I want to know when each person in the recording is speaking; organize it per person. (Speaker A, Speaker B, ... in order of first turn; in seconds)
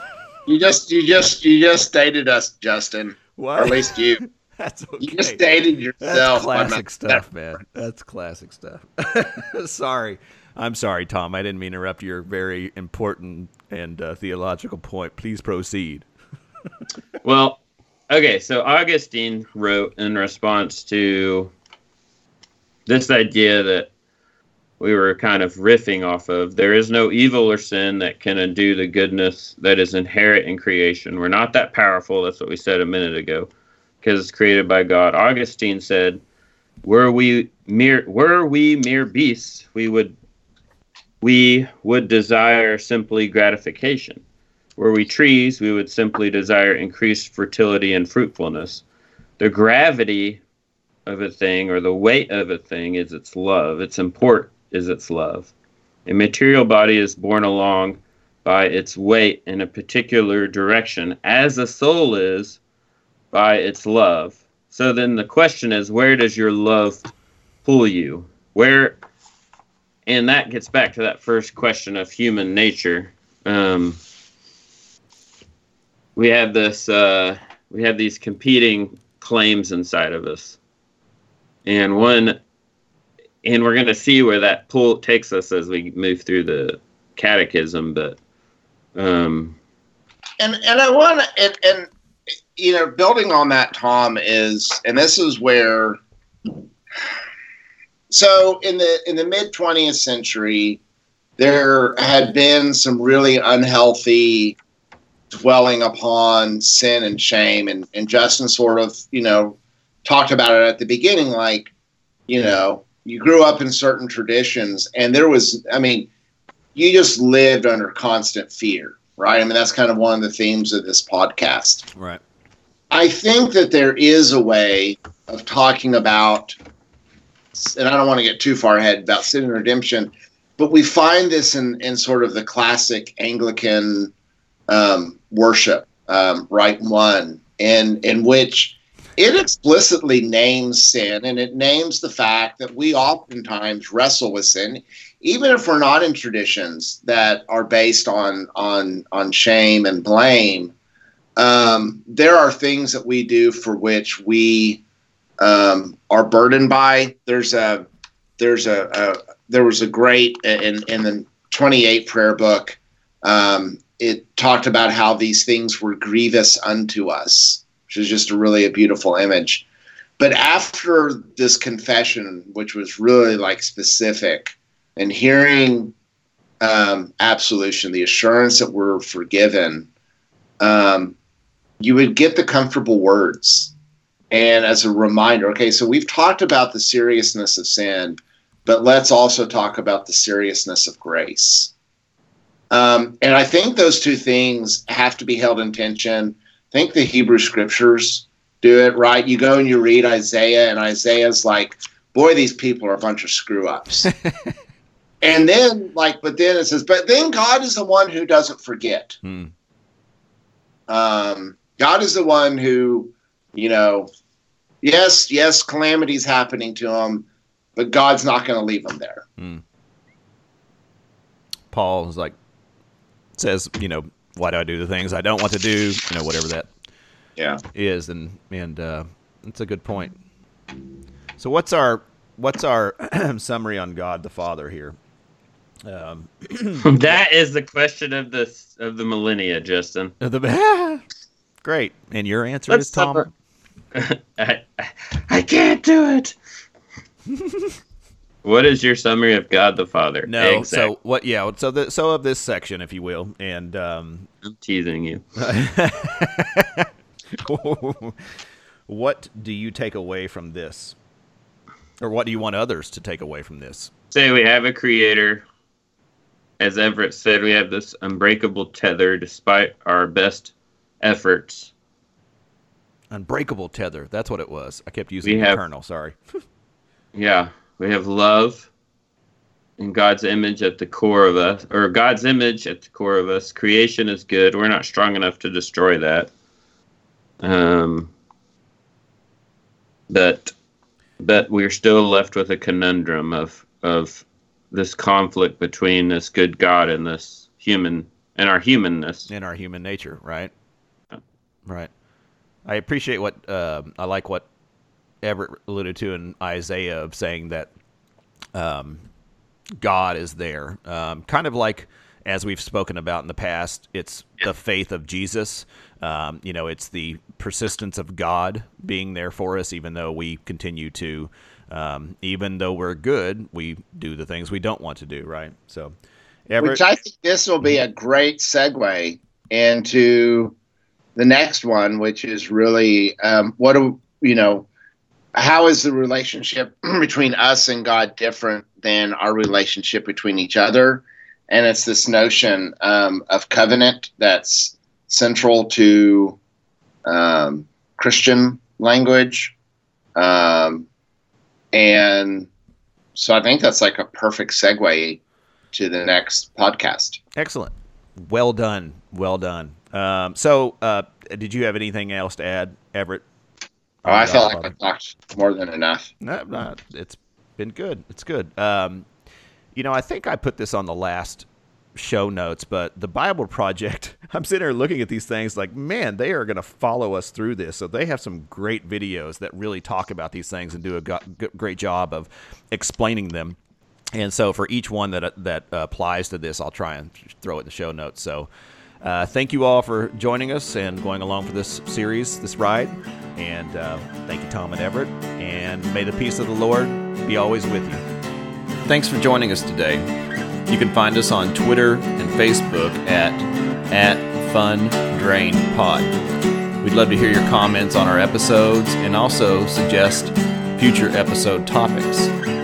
Speaker A: 0.5-4.2, 5.0-7.2, 90.4-91.9, 92.5-96.0, 98.1-100.8, 101.4-104.6, 105.3-111.7, 112.3-116.1, 116.7-121.8, 122.9-126.5, 127.5-134.1, 134.7-150.7, 151.4-154.8, 155.4-157.9, 158.4-169.7, 170.2-175.9, 176.6-179.9, 180.6-181.1, 181.8-183.7, 184.3-191.7, 192.7-204.1, 205.2-209.2, 210.9-214.1, 214.8-219.2, 326.6-330.5, 331.1-334.7, 335.3-346.4, 347.1-349.5, 350.1-350.9, 351.7-352.5, 353.1-355.2, 355.7-357.2, 364.1-366.1
Speaker B: 3.4-5.4, 6.0-16.1, 121.9-122.2, 204.1-204.5, 209.2-209.5, 219.4-219.6, 221.7-222.3, 223.4-226.7, 227.7-230.2, 231.4-234.9, 235.8-236.9, 240.2-241.0, 241.6-243.3, 250.2-254.3, 255.4-256.9, 257.4-258.2, 258.9-260.9, 262.0-263.9, 273.1-276.2, 299.3-300.5, 302.6-304.4, 305.2-307.7, 308.5-309.0, 309.8-325.9, 326.5-326.8, 357.4-357.7, 358.3-363.2, 364.0-364.7, 366.2-369.1, 369.7-383.6, 384.1-388.5, 389.0-398.0, 398.8-400.1, 400.7-406.1, 406.8-412.3
Speaker C: 17.2-21.5, 22.9-23.9, 24.8-33.5, 34.0-36.2, 36.8-40.1, 41.2-44.2, 44.8-48.8, 49.4-50.4, 51.0-55.5, 56.0-62.6, 63.3-67.1, 67.6-69.0, 70.0-74.0, 76.2-80.6, 81.6-82.4, 83.4-88.2, 89.0-89.6, 236.8-240.1, 242.7-243.3, 243.9-246.3, 248.4-250.9, 254.4-255.2, 264.1-265.4, 266.6-271.7, 275.2-275.6, 277.1-278.7, 279.8-286.3, 287.4-288.1, 290.1-290.5, 291.2-299.3